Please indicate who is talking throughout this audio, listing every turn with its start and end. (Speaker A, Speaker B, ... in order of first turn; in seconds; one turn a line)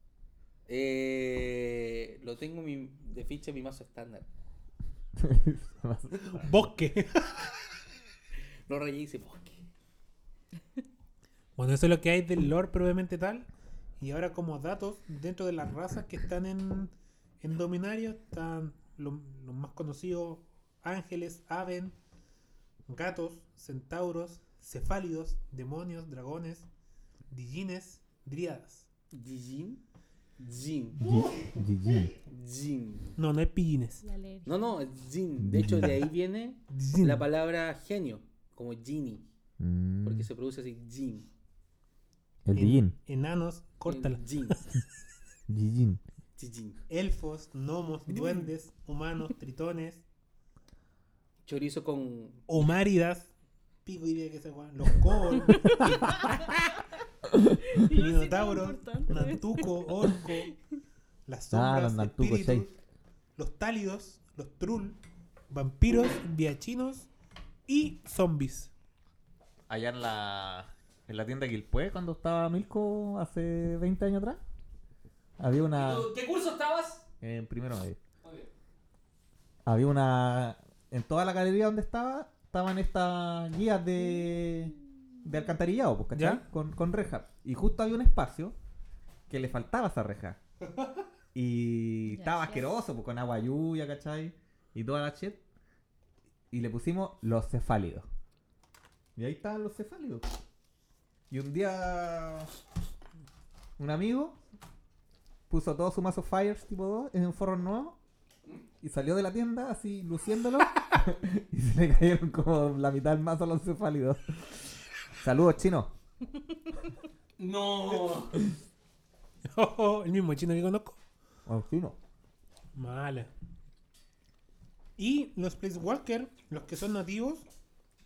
Speaker A: 0.7-4.3
Speaker B: 5.2-6.5
Speaker C: 6.3-7.6
Speaker A: 8.7-9.6
Speaker C: 11.6-21.9
Speaker C: 22.9-26.7
Speaker C: 27.3-28.9
Speaker A: 29.1-29.8
Speaker A: 30.4-31.3
Speaker B: 31.0-32.1
Speaker A: 32.2-33.2
Speaker C: 33.2-34.0
Speaker D: 34.0-34.7
Speaker A: 34.4-39.3
Speaker B: 35.4-36.0
Speaker C: 36.7-37.2
Speaker B: 39.6-40.3
Speaker A: 40.0-41.3
Speaker B: 42.4-42.9
Speaker C: 42.5-44.6
Speaker A: 43.8-44.7
Speaker B: 45.5-46.0
Speaker A: 46.4-46.8
Speaker C: 46.9-50.0
Speaker A: 51.5-52.5
Speaker C: 52.5-53.3
Speaker C: 53.8-56.5
Speaker D: 55.9-56.2
Speaker D: 57.7-60.4
Speaker C: 57.8-60.5
Speaker C: 61.2-62.8
Speaker B: 61.5-62.7
Speaker C: 63.4-67.1
Speaker C: 67.7-68.7
Speaker B: 69.7-74.4
Speaker B: 75.4-76.1
Speaker A: 75.7-77.0
Speaker B: 77.2-78.0
Speaker A: 78.2-78.5
Speaker B: 79.7-88.5
Speaker C: 86.1-86.4
Speaker B: 89.3-90.4
Speaker B: 91.3-95.4
Speaker D: 92.1-92.7
Speaker B: 96.5-98.1
Speaker B: 99.2-100.2
Speaker B: 101.3-102.5
Speaker B: 103.8-104.4
Speaker B: 105.5-108.0
Speaker B: 108.8-114.5
Speaker B: 115.2-115.9
Speaker A: 117.4-118.4
Speaker C: 119.5-121.0
Speaker B: 121.5-122.0
Speaker C: 122.7-123.3
Speaker C: 125.0-127.5